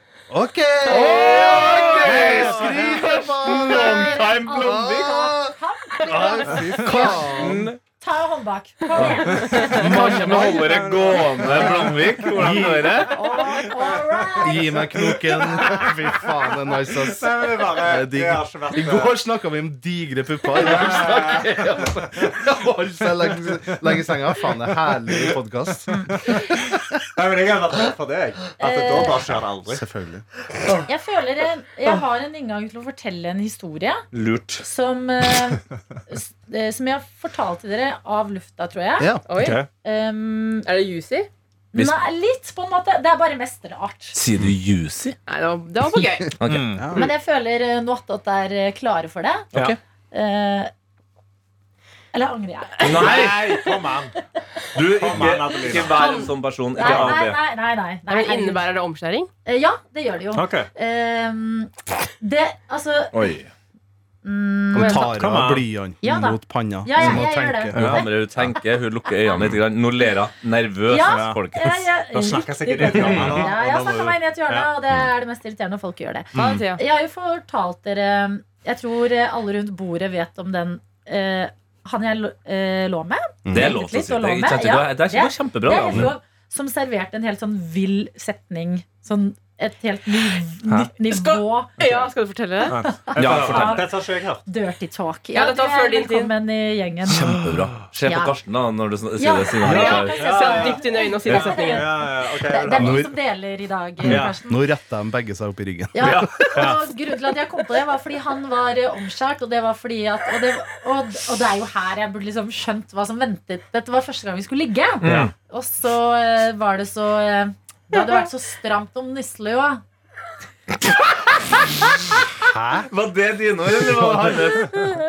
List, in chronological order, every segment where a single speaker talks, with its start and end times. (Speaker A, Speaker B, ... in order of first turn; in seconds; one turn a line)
Speaker A: 0.3-7.7
Speaker B: 0.9-5.2
Speaker C: 1.0-1.4
Speaker D: 1.7-2.8
Speaker E: 2.8-9.9
Speaker B: 6.1-7.8
Speaker B: 8.9-13.2
Speaker C: 9.3-9.7
Speaker D: 9.4-12.6
Speaker A: 9.6-10.8
Speaker A: 11.4-13.1
Speaker E: 13.0-15.1
Speaker D: 13.5-16.3
Speaker A: 14.4-26.7
Speaker D: 16.9-19.1
Speaker D: 20.6-21.5
Speaker D: 23.4-24.0
Speaker D: 25.9-29.8
Speaker E: 28.6-29.3
Speaker A: 29.7-30.2
Speaker E: 30.9-34.0
Speaker B: 34.1-34.6
Speaker E: 34.6-39.2
Speaker A: 39.0-39.2
Speaker C: 39.2-39.6
Speaker D: 39.3-39.7
Speaker E: 39.8-40.7
Speaker C: 40.6-41.3
Speaker E: 41.7-44.2
Speaker B: 41.7-42.0
Speaker B: 44.1-45.2
Speaker C: 45.3-46.4
Speaker B: 46.4-46.8
Speaker D: 46.4-46.9
Speaker A: 46.8-47.1
Speaker E: 46.9-49.5
Speaker B: 49.5-49.8
Speaker E: 50.1-50.7
Speaker E: 52.1-53.4
Speaker B: 52.8-53.6
Speaker D: 52.8-54.1
Speaker D: 54.7-56.2
Speaker B: 54.7-57.4
Speaker C: 55.8-56.3
Speaker E: 56.7-58.7
Speaker D: 56.8-57.1
Speaker C: 58.1-59.3
Speaker E: 59.4-63.3
Speaker D: 60.3-60.7
Speaker B: 63.1-63.5
Speaker E: 64.2-65.1
Speaker A: 64.7-68.0
Speaker C: 64.7-65.0
Speaker D: 65.1-65.7
Speaker E: 66.0-68.5
Speaker D: 67.7-68.0
Speaker B: 67.7-71.9
Speaker E: 70.9-91.7
Speaker D: 71.0-71.4
Speaker D: 72.1-74.7
Speaker B: 72.9-73.4
Speaker D: 76.3-76.6
Speaker C: 76.3-76.8
Speaker A: 83.4-83.7
Speaker B: 83.5-86.1
Speaker D: 90.7-90.9
Speaker C: 91.1-92.8
Speaker D: 91.8-92.1
Speaker D: 92.7-94.4
Speaker E: 92.7-93.9
Speaker B: 93.2-93.8
Speaker E: 94.5-97.3
Speaker C: 95.3-96.3
Speaker B: 97.1-100.2
Speaker D: 97.2-97.5
Speaker E: 98.0-98.3
Speaker E: 99.2-104.7
Speaker D: 99.6-103.1
Speaker C: 99.7-101.9
Speaker A: 102.7-103.1
Speaker A: 104.0-106.8
Speaker D: 104.1-104.3
Speaker E: 105.9-119.8
Speaker B: 106.0-106.5
Speaker B: 115.0-115.3
Speaker D: 115.0-115.3
Speaker D: 122.4-122.9
Speaker B: 122.9-124.9